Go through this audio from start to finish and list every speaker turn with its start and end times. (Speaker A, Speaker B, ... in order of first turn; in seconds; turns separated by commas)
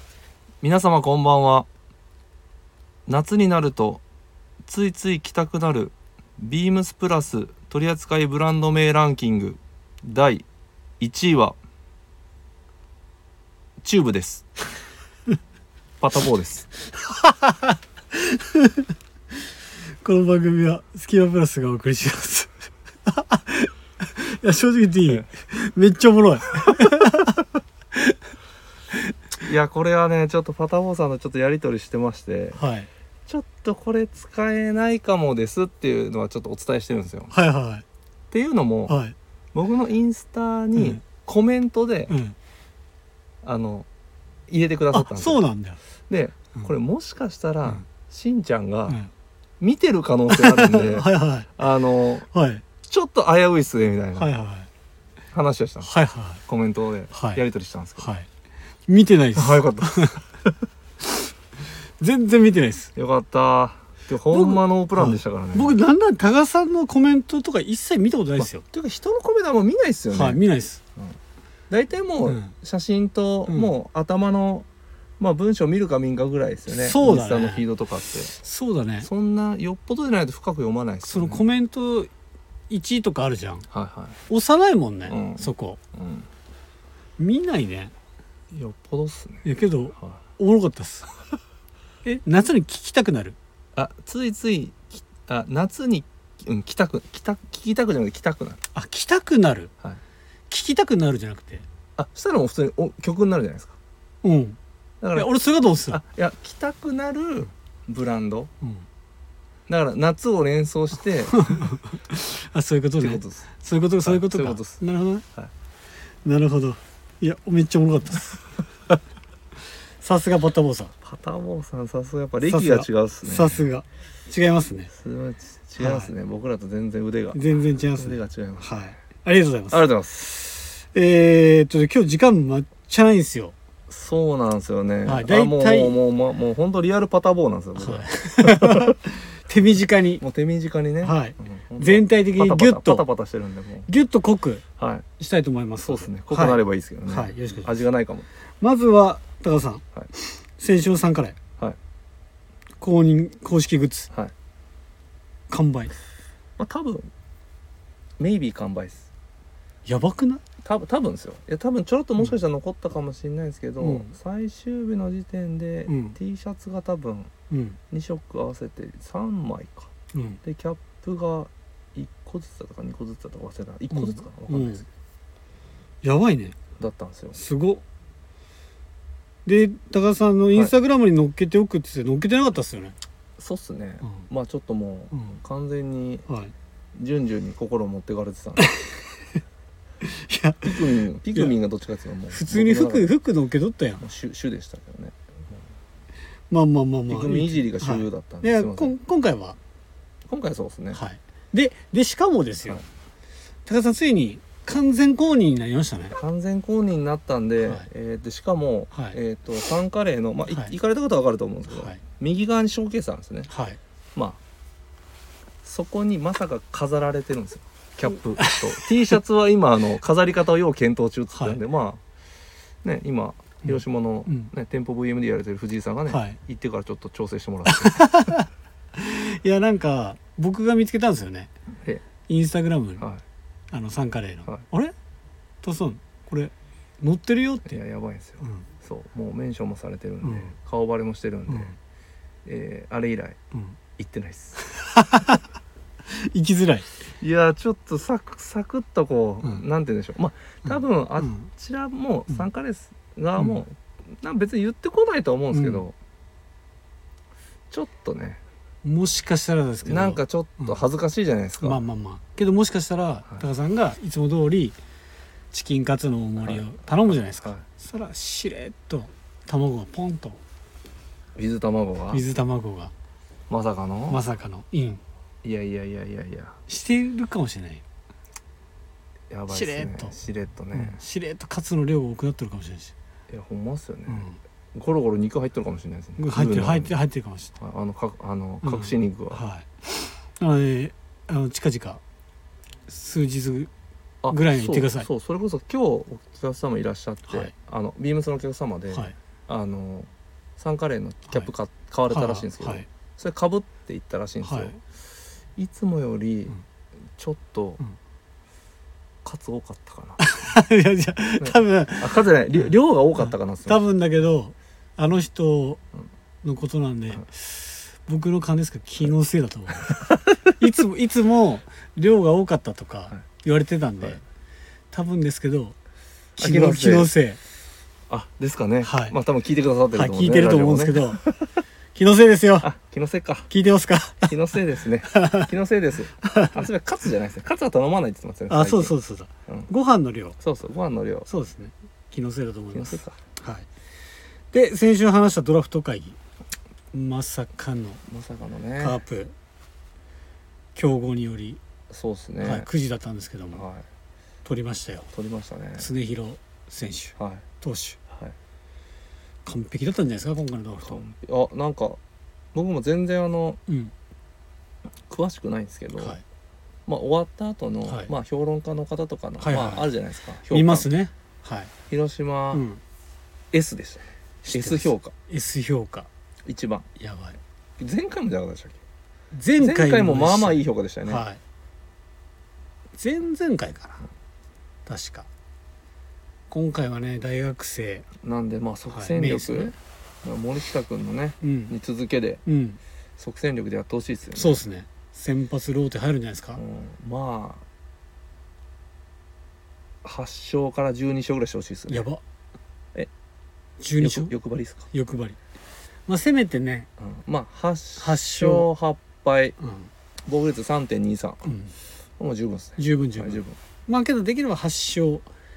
Speaker A: 0.6-1.7, Speaker A: 3.1-4.0, Speaker A: 4.7-10.5, Speaker A: 11.0-11.6, Speaker A: 13.8-14.5, Speaker A: 16.0-16.7, Speaker B: 16.9-18.9, Speaker B: 20.0-22.5, Speaker B: 23.1-28.2, Speaker A: 26.6-27.1, Speaker A: 29.4-32.6, Speaker B: 32.6-32.9, Speaker A: 33.3-37.3, Speaker B: 37.3-37.8, Speaker A: 38.3-39.0, Speaker B: 38.9-39.1, Speaker A: 39.5-42.1, Speaker B: 40.8-41.0, Speaker B: 42.1-42.4, Speaker A: 43.4-43.9, Speaker A: 44.5-45.4, Speaker B: 44.9-45.8, Speaker A: 46.1-49.0, Speaker A: 49.6-52.3, Speaker B: 50.3-51.5, Speaker B: 52.3-52.6, Speaker A: 52.9-54.3, Speaker B: 54.2-54.7, Speaker A: 55.3-55.9, Speaker B: 55.8-56.4, Speaker A: 56.5-58.1, Speaker B: 57.1-57.4, Speaker B: 58.0-58.3, Speaker B: 58.9-60.2, Speaker A: 59.4-60.2, Speaker B: 62.0-62.9, Speaker A: 63.0-65.8, Speaker B: 64.3-68.6, Speaker A: 68.4-70.4, Speaker B: 70.1-70.8, Speaker A: 71.7-74.7, Speaker B: 72.3-72.5, Speaker A: 75.2-78.3, Speaker B: 76.7-77.7, Speaker B: 78.3-79.1, Speaker A: 79.0-81.4, Speaker B: 81.0-82.1, Speaker B: 82.7-83.7, Speaker A: 83.7-84.2, Speaker B: 84.3-85.8, Speaker A: 85.1-86.3, Speaker B: 87.2-87.9, Speaker A: 88.5-89.5, Speaker B: 89.5-91.1, Speaker B: 92.0-93.4, Speaker A: 93.8-98.6, Speaker B: 98.8-99.7, Speaker B: 100.5-101.7, Speaker A: 102.0-103.8, Speaker B: 104.2-104.6, Speaker A: 105.0-105.3, Speaker B: 105.1-106.0, Speaker A: 105.9-108.5, Speaker A: 109.7-111.8, Speaker B: 111.3-115.2, Speaker A: 113.0-113.5, Speaker A: 114.0-114.8, Speaker B: 116.2-118.4, Speaker B: 120.0-120.9, Speaker A: 121.0-123.6, Speaker B: 122.5-124.9, Speaker A: 124.9-128.8, Speaker B: 125.8-126.1, Speaker B: 127.3-133.6, Speaker A: 129.7-130.3, Speaker A: 133.9-139.0, Speaker B: 135.1-136.0, Speaker B: 137.8-140.2, Speaker A: 140.2-143.9, Speaker B: 141.0-143.1, Speaker B: 143.9-144.6, Speaker A: 144.8-145.1, Speaker B: 145.2-147.8, Speaker A: 145.8-148.3, Speaker B: 148.6-151.4, Speaker B: 152.8-154.1, Speaker B: 155.5-155.9, Speaker A: 156.6-157.1, Speaker A: 158.2-159.1, Speaker B: 159.9-160.4, Speaker A: 160.6-167.3, Speaker B: 163.8-164.1, Speaker B: 165.9-166.2, Speaker B: 167.5-167.8, Speaker A: 167.9-169.9, Speaker B: 170.1-170.4, Speaker A: 170.4-174.9, Speaker B: 173.9-174.8, Speaker B: 176.0-176.6, Speaker A: 176.8-177.4, Speaker B: 177.3-177.8, Speaker B: 179.5-182.9, Speaker A: 183.4-186.3, Speaker B: 185.1-185.4, Speaker B: 186.3-186.5, Speaker A: 186.9-188.7, Speaker B: 188.6-189.2, Speaker B: 190.0-191.5, Speaker A: 190.6-193.1, Speaker B: 192.3-194.0, Speaker A: 194.0-195.7, Speaker B: 196.5-199.6, Speaker A: 197.1-199.0, Speaker A: 200.3-201.0, Speaker B: 200.9-202.9, Speaker B: 203.7-206.2, Speaker A: 206.2-213.5, Speaker B: 207.6-207.9, Speaker B: 208.9-209.2, Speaker B: 211.7-212.0, Speaker B: 213.5-213.8, Speaker A: 215.6-222.0, Speaker B: 218.4-218.9, Speaker A: 222.8-228.1, Speaker B: 223.7-224.5, Speaker B: 226.1-226.4, Speaker B: 227.7-231.5, Speaker A: 231.7-232.0, Speaker B: 232.3-233.1, Speaker B: 233.7-234.9, Speaker B: 235.6-237.8, Speaker A: 237.7-241.8, Speaker B: 238.4-238.7, Speaker B: 240.2-240.5, Speaker B: 241.5-241.8, Speaker A: 242.4-243.4, Speaker A: 244.0-244.6, Speaker B: 244.6-245.4, Speaker B: 246.1-246.9, Speaker A: 247.2-255.9, Speaker B: 251.2-251.5, Speaker B: 255.5-255.9, Speaker A: 257.7-258.4, Speaker B: 258.8-260.8, Speaker A: 259.9-261.8, Speaker B: 261.6-264.8, Speaker B: 265.5-270.4, Speaker A: 266.4-267.6, Speaker A: 271.4-272.3, Speaker B: 272.1-272.9, Speaker A: 273.5-274.2, Speaker B: 274.1-275.0, Speaker A: 275.4-276.6, Speaker B: 276.7-277.8, Speaker A: 279.3-281.0, Speaker B: 279.5-280.2, Speaker B: 280.7-282.9, Speaker A: 283.3-287.0, Speaker B: 284.1-284.4, Speaker B: 286.2-287.5, Speaker A: 287.6-289.4, Speaker B: 288.6-292.0, Speaker B: 292.9-293.7, Speaker A: 294.2-304.7, Speaker B: 294.3-295.1, Speaker B: 297.3-297.5, Speaker B: 302.1-302.9, Speaker B: 304.4-304.8, Speaker A: 305.6-306.6, Speaker A: 307.2-307.8, Speaker A: 309.2-310.2, Speaker B: 310.2-312.2, Speaker A: 311.4-313.8, Speaker B: 313.2-315.8, Speaker B: 316.4-324.2, Speaker B: 324.9-325.8, Speaker A: 326.4-327.1, Speaker B: 326.4-327.4, Speaker A: 328.1-331.5, Speaker B: 328.8-329.2, Speaker B: 329.9-331.2, Speaker B: 331.9-332.7, Speaker A: 332.6-333.5, Speaker B: 333.5-334.4, Speaker A: 334.3-338.9, Speaker B: 335.1-335.5, Speaker B: 336.2-336.6, Speaker B: 338.5-340.4, Speaker A: 340.4-341.3, Speaker B: 341.3-343.7, Speaker A: 342.7-343.2, Speaker B: 344.5-346.2, Speaker B: 346.9-348.0, Speaker A: 348.1-349.0, Speaker B: 348.8-349.3, Speaker B: 350.8-351.6, Speaker A: 351.9-352.7, Speaker B: 352.4-353.6, Speaker A: 353.5-353.9, Speaker B: 354.4-355.1, Speaker A: 355.1-355.9, Speaker B: 355.8-358.0, Speaker A: 357.2-357.4, Speaker A: 358.1-358.4, Speaker B: 359.4-361.0, Speaker A: 360.8-362.0, Speaker A: 362.5-363.6, Speaker B: 363.7-363.9, Speaker A: 365.1-366.2, Speaker A: 366.9-370.9, Speaker B: 367.9-368.1, Speaker B: 369.4-369.9, Speaker B: 370.5-371.7, Speaker A: 371.9-372.6, Speaker B: 372.5-372.8, Speaker A: 373.5-375.1, Speaker B: 374.4-376.1, Speaker A: 376.4-376.9, Speaker B: 377.0-377.4, Speaker A: 377.8-378.8, Speaker B: 379.3-381.4, Speaker A: 379.6-381.2, Speaker B: 383.0-384.1, Speaker B: 384.9-385.3, Speaker B: 386.5-388.1, Speaker A: 388.2-392.4, Speaker B: 388.9-389.7, Speaker B: 391.4-391.8, Speaker B: 392.5-392.8, Speaker A: 393.2-394.6, Speaker B: 394.3-396.6, Speaker A: 396.6-397.6, Speaker A: 400.0-402.1, Speaker B: 401.9-402.2, Speaker B: 403.8-404.4, Speaker A: 404.0-404.9, Speaker B: 404.9-405.4, Speaker B: 406.1-406.9, Speaker A: 407.0-409.6, Speaker B: 408.0-408.7, Speaker B: 409.6-409.9, Speaker A: 410.2-411.5, Speaker B: 411.4-411.7, Speaker A: 412.2-413.6, Speaker B: 412.8-415.3